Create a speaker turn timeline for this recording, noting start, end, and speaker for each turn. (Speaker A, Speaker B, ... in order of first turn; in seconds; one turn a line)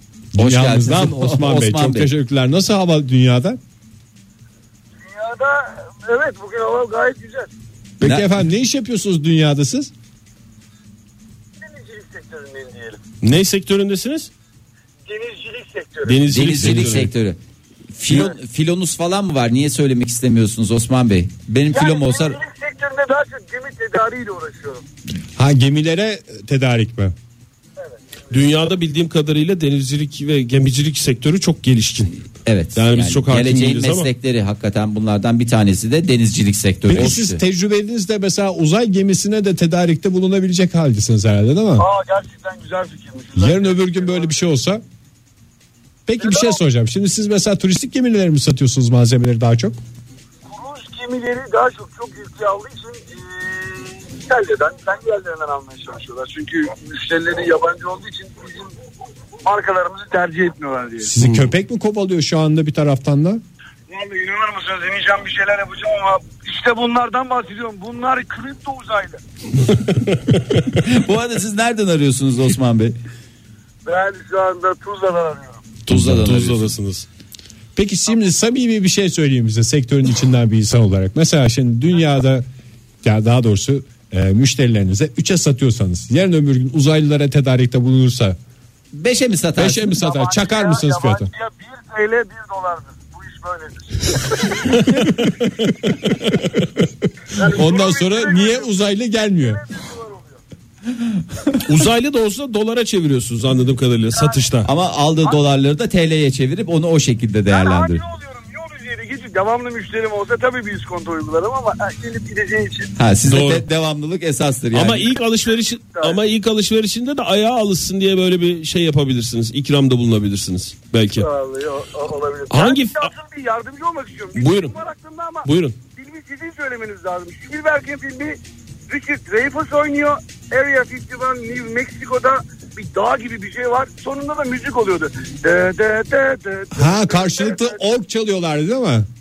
Speaker A: 0.3-3.6
Speaker B: 0.4-2.1
Speaker C: 5.0-7.5
Speaker A: 8.0-9.9
Speaker B: 8.0-8.3
Speaker C: 11.6-13.0
Speaker D: 13.2-14.3
Speaker C: 15.1-16.2
Speaker D: 16.1-17.1
Speaker B: 16.3-17.4
Speaker B: 17.9-22.4
Speaker C: 21.7-24.8
Speaker A: 25.4-27.1
Speaker D: 28.3-32.1
Speaker B: 32.5-37.4
Speaker D: 32.8-34.1
Speaker A: 36.9-41.9
Speaker C: 41.8-44.5
Speaker A: 43.4-44.8
Speaker A: 46.1-49.8
Speaker C: 46.2-46.6
Speaker C: 50.5-58.8
Speaker C: 59.5-61.1
Speaker A: 61.0-63.4
Speaker D: 61.2-61.5
Speaker C: 63.9-69.2
Speaker D: 69.7-70.4
Speaker B: 70.8-73.0
Speaker C: 73.9-75.6
Speaker B: 75.9-76.7
Speaker A: 75.9-76.3
Speaker D: 75.9-77.1
Speaker A: 77.8-82.5
Speaker A: 83.0-88.4
Speaker B: 88.9-90.0
Speaker A: 89.6-91.3
Speaker C: 89.9-94.7
Speaker D: 94.8-95.7
Speaker C: 97.4-100.4
Speaker A: 97.4-99.6
Speaker D: 101.7-104.7
Speaker C: 104.1-104.4
Speaker B: 104.7-108.0
Speaker C: 107.5-112.9
Speaker B: 113.0-115.1
Speaker D: 113.3-113.7
Speaker D: 114.7-121.3
Speaker C: 115.5-116.2
Speaker C: 121.2-128.4
Speaker D: 122.5-123.1
Speaker D: 124.4-124.8
Speaker D: 125.5-125.8
Speaker C: 128.9-137.8
Speaker A: 136.7-139.1